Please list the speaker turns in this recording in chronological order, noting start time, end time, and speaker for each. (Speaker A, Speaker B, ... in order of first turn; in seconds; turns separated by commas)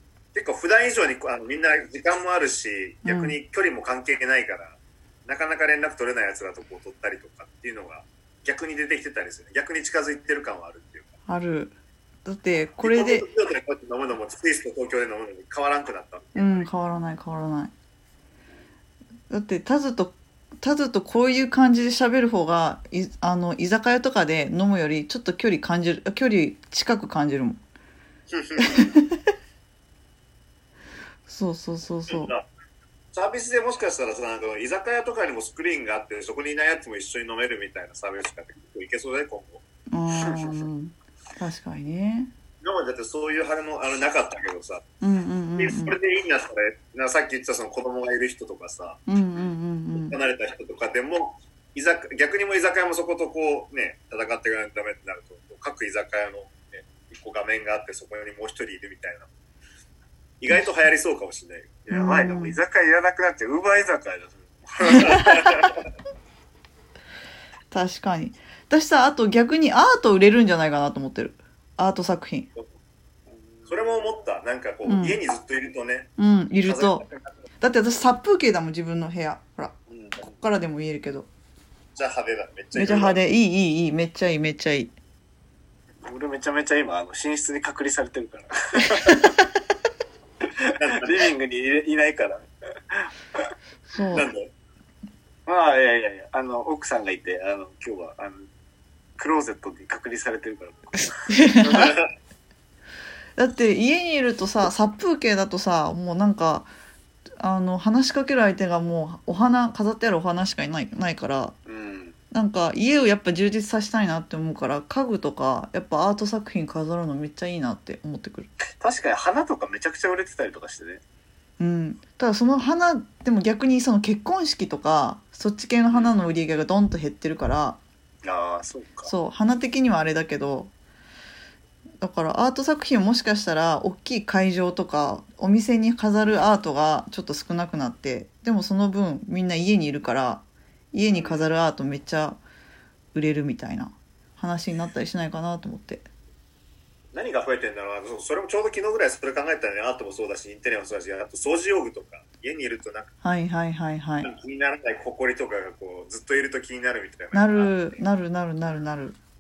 Speaker A: 0.3-11.1, Speaker B: 3.0-3.4, Speaker B: 11.3-11.7, Speaker B: 12.2-13.2, Speaker A: 12.8-16.7, Speaker B: 16.3-17.7, Speaker B: 19.3-27.6, Speaker A: 28.3-28.8, Speaker B: 28.7-29.2, Speaker B: 31.3-32.3, Speaker A: 32.1-32.4, Speaker A: 33.1-39.6, Speaker B: 39.9-42.3, Speaker A: 42.6-44.8, Speaker B: 45.0-46.0, Speaker A: 45.6-49.0, Speaker B: 49.1-50.1, Speaker A: 49.9-59.3, Speaker A: 60.4-62.0, Speaker B: 60.5-60.9, Speaker C: 61.9-65.2, Speaker B: 61.9-62.6, Speaker A: 64.8-65.7, Speaker B: 67.7-72.5, Speaker C: 73.3-74.0, Speaker A: 73.7-76.1, Speaker B: 74.8-75.2, Speaker B: 76.2-77.0, Speaker A: 76.6-77.2, Speaker B: 77.6-81.3, Speaker C: 79.9-80.2, Speaker A: 82.0-83.2, Speaker B: 82.7-84.9, Speaker C: 86.0-89.2, Speaker C: 90.7-93.4, Speaker A: 90.8-91.0, Speaker B: 93.9-94.3, Speaker A: 94.1-94.5, Speaker C: 95.5-98.5, Speaker C: 99.2-101.3, Speaker B: 101.2-102.0, Speaker A: 101.6-102.1, Speaker B: 103.4-106.7, Speaker B: 107.4-111.5, Speaker C: 111.7-112.2, Speaker B: 112.3-118.5, Speaker C: 118.8-121.0, Speaker B: 121.6-127.8, Speaker C: 125.9-126.2, Speaker C: 128.2-129.1, Speaker B: 129.0-130.7, Speaker B: 132.0-142.4, Speaker A: 141.1-141.4, Speaker B: 143.1-146.1, Speaker A: 147.1-153.1, Speaker B: 153.2-154.3, Speaker A: 154.2-157.8, Speaker B: 157.3-159.2